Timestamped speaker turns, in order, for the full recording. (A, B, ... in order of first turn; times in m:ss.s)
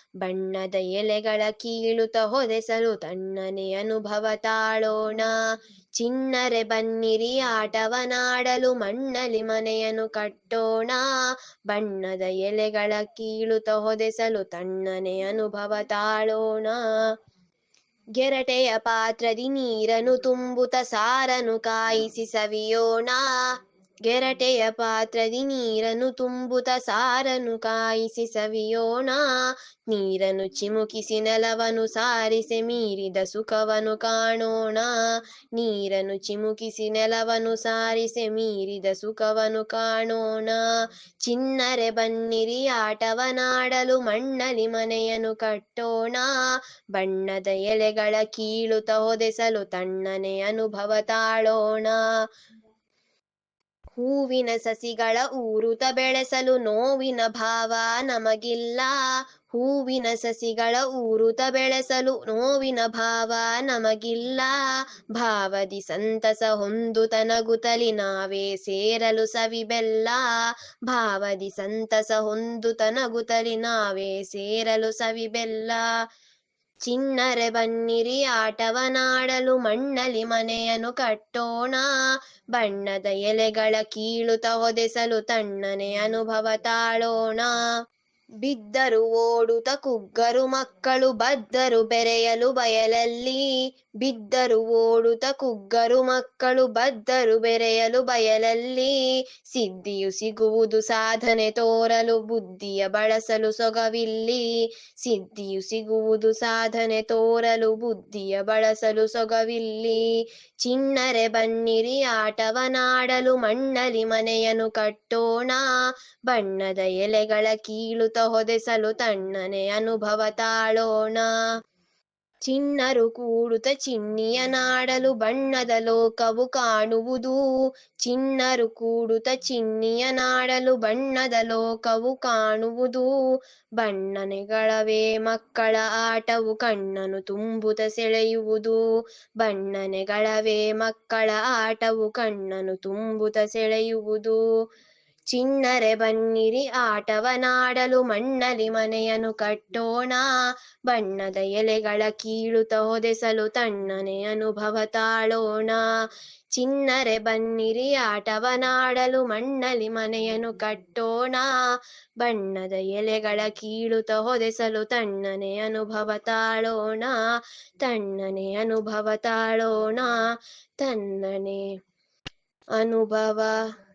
0:00.2-0:05.3 A
0:06.0-0:11.0 A
0:11.7-0:16.8 A
0:18.2-0:23.2 A
0:24.1-0:29.2 A
0:29.9-0:34.9 A
0:35.6-0:40.6 A
0:41.2-0:46.3 A
0:46.9-0:52.0 A
0:53.9-0:58.9 A
0:59.5-1:04.6 A
1:05.1-1:10.2 A
1:10.9-1:15.8 A
1:16.8-1:21.9 A
1:22.5-1:27.6 A
1:28.4-1:33.4 A
1:34.0-1:38.9 A
1:39.5-1:44.4 A
1:45.0-1:50.0 A
1:50.6-1:55.6 A
1:56.3-2:01.3 A
2:02.5-2:07.4 A
2:08.0-2:13.1 A
2:13.8-2:18.8 A
2:19.4-2:24.4 A
2:25.3-2:30.2 A
2:30.9-2:35.8 A
2:36.6-2:41.5 A
2:42.2-2:47.2 A
2:47.8-2:50.2 A
2:50.8-2:51.6 A
2:52.8-2:53.6 A